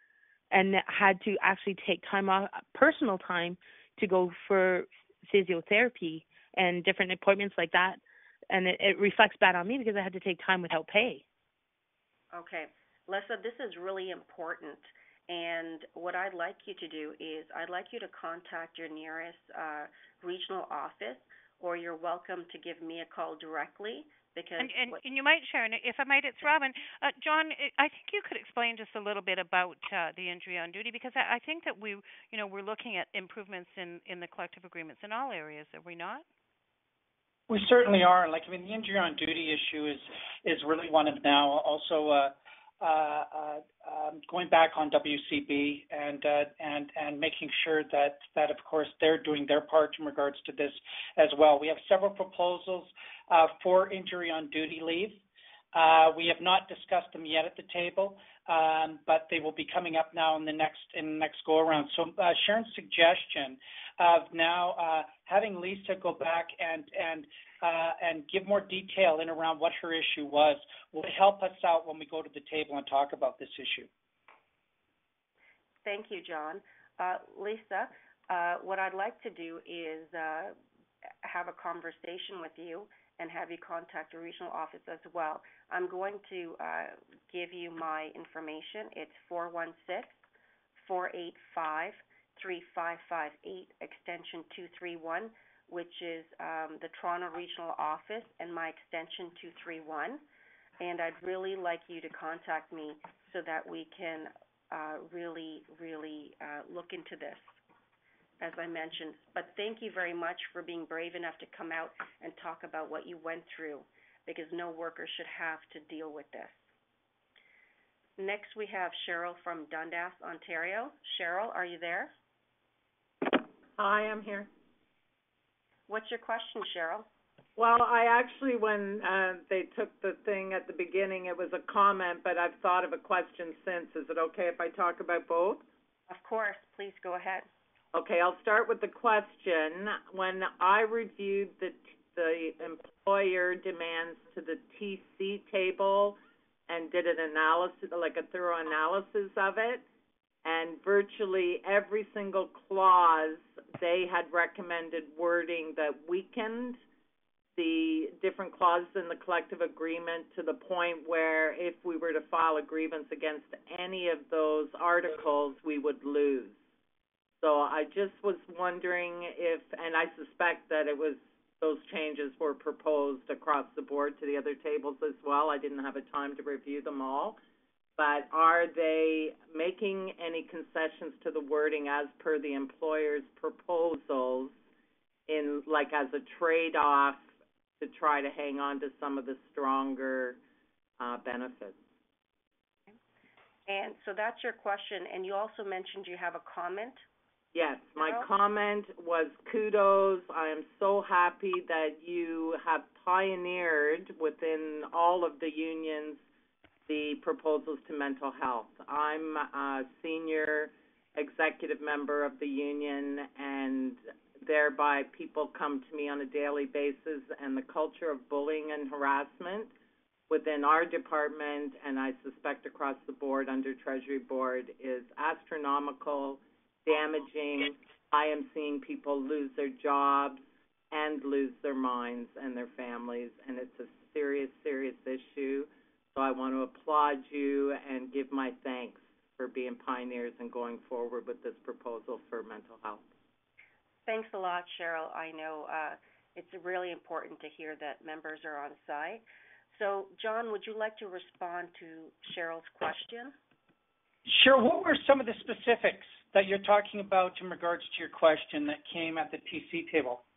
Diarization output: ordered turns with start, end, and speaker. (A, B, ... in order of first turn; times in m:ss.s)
0:00.5-0:11.2 A
0:12.3-0:25.0 B
0:24.6-0:36.2 C
0:37.5-0:55.2 D
0:55.7-1:13.9 D
1:15.8-1:20.6 B
1:21.2-1:30.2 B
1:30.8-1:40.2 B
1:40.8-1:47.6 B
1:48.4-1:56.7 B
1:58.2-2:02.1 B
2:03.8-2:04.5 E
2:05.9-2:07.1 B
2:07.6-2:15.6 E
2:16.1-2:17.5 B
2:17.9-2:26.2 E
2:26.7-2:29.8 E
2:30.4-2:36.8 E
2:37.6-2:46.6 E
2:47.4-2:57.4 E
2:58.0-3:04.6 E
3:05.3-3:07.3 E
3:07.8-3:10.4 E
3:11.0-3:11.8 E
3:13.7-3:17.0 B
3:17.5-3:26.2 E
3:18.0-3:18.3 B
3:26.9-3:39.7 E
3:40.3-4:03.0 E
4:04.1-4:13.4 B
4:14.3-4:20.2 D